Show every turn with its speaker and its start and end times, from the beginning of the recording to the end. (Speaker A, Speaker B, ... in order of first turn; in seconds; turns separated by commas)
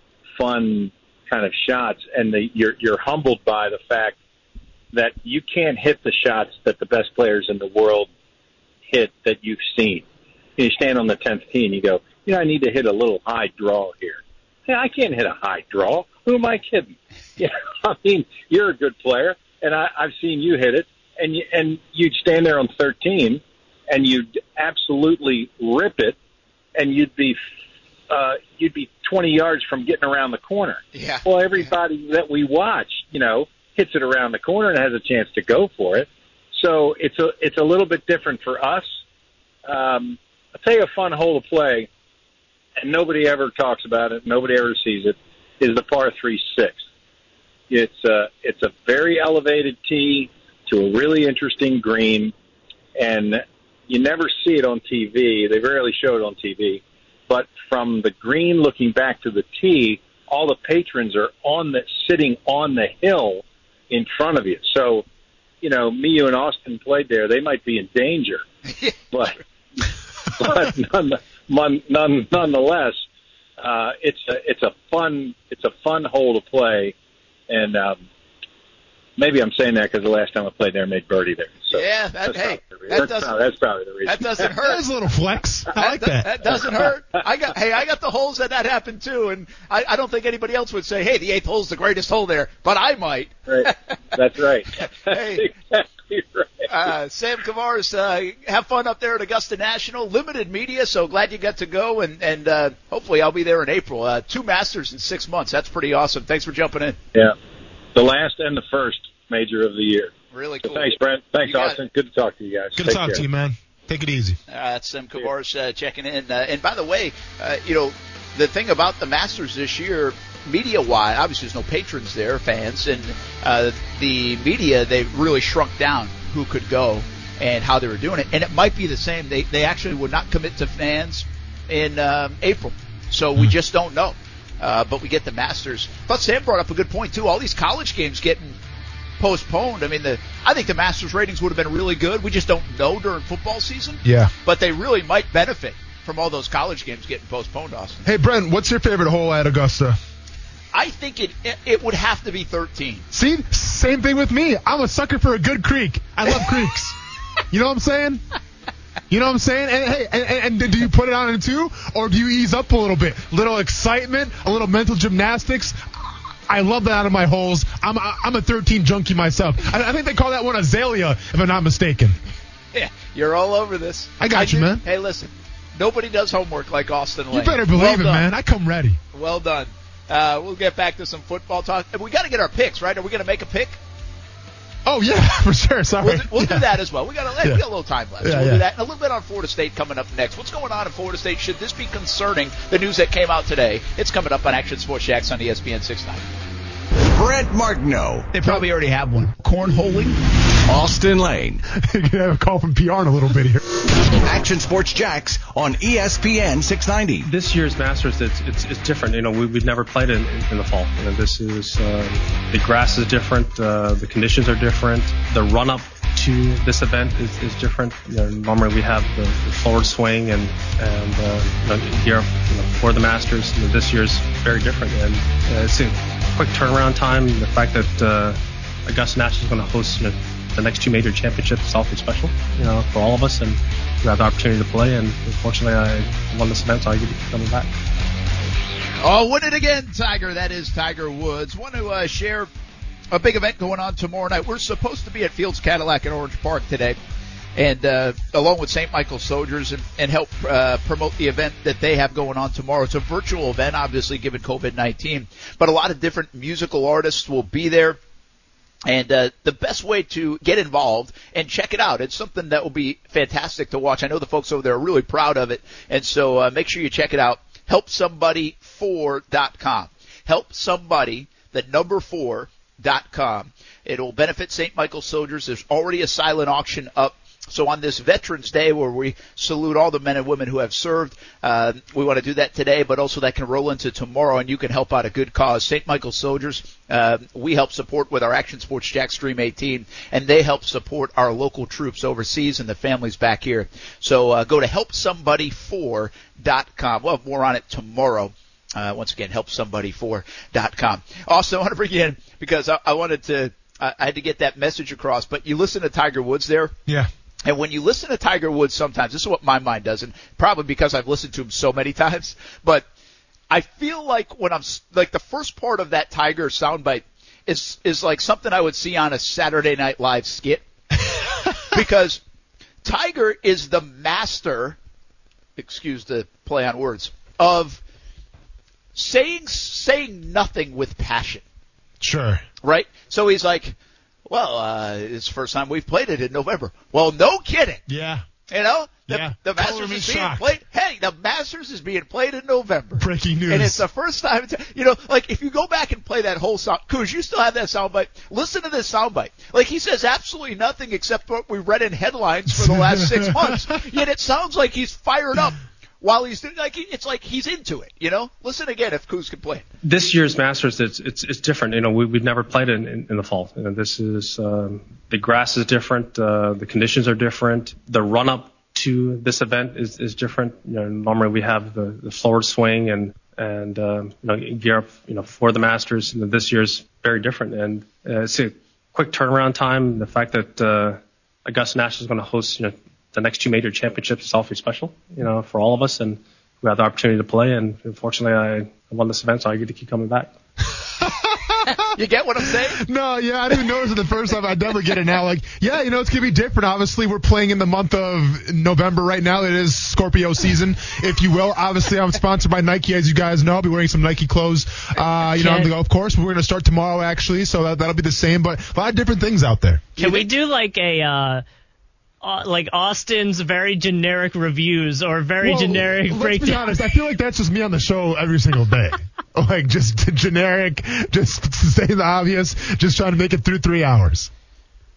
Speaker A: 0.4-4.2, Speaker A: 4.9-8.1, Speaker A: 8.9-10.1, Speaker A: 10.6-26.2, Speaker A: 26.8-27.4, Speaker A: 28.1-38.9, Speaker B: 30.9-31.7, Speaker A: 39.7-41.9, Speaker A: 42.8-46.8, Speaker A: 47.7-52.3, Speaker A: 53.0-65.0, Speaker A: 65.6-68.4, Speaker B: 68.7-69.0, Speaker A: 69.1-69.4, Speaker A: 70.4-73.0, Speaker A: 73.6-76.9, Speaker A: 77.5-78.0, Speaker A: 79.2-84.5, Speaker B: 81.7-83.4, Speaker B: 84.1-84.8, Speaker C: 84.6-86.6, Speaker B: 85.8-93.8, Speaker A: 93.5-96.9, Speaker B: 95.1-95.5, Speaker B: 96.7-107.0, Speaker A: 108.0-110.1, Speaker B: 110.3-111.8, Speaker A: 110.6-113.2, Speaker C: 112.8-114.4, Speaker B: 114.5-138.6, Speaker B: 139.2-148.0, Speaker C: 144.0-144.3, Speaker C: 148.0-150.0, Speaker B: 150.7-153.1, Speaker C: 153.1-157.0, Speaker C: 157.5-158.2, Speaker C: 159.1-172.2, Speaker B: 172.7-178.3, Speaker C: 174.2-174.8, Speaker C: 177.3-179.0, Speaker B: 179.1-183.8, Speaker C: 184.8-186.8, Speaker B: 186.0-196.2, Speaker C: 188.2-188.7, Speaker D: 197.1-198.3, Speaker B: 198.3-200.2, Speaker D: 200.7-201.6, Speaker C: 201.8-203.8, Speaker D: 204.1-207.3, Speaker E: 207.2-237.7, Speaker B: 239.0-242.5, Speaker B: 243.1-247.0, Speaker B: 247.6-258.0, Speaker B: 258.9-306.8, Speaker B: 307.4-312.9, Speaker B: 313.5-320.6, Speaker B: 321.7-322.2, Speaker B: 322.8-324.8, Speaker B: 325.6-327.8, Speaker B: 328.9-331.4, Speaker C: 332.0-332.4, Speaker B: 332.6-333.8, Speaker B: 334.3-337.8, Speaker C: 337.9-338.2, Speaker B: 338.5-359.6, Speaker C: 339.1-340.5, Speaker C: 343.0-343.8, Speaker C: 352.5-353.8, Speaker E: 359.8-390.3, Speaker C: 390.8-391.8, Speaker B: 391.7-392.8, Speaker C: 392.8-410.3, Speaker F: 405.3-405.7, Speaker F: 410.0-411.4, Speaker F: 412.2-416.8, Speaker C: 415.4-424.3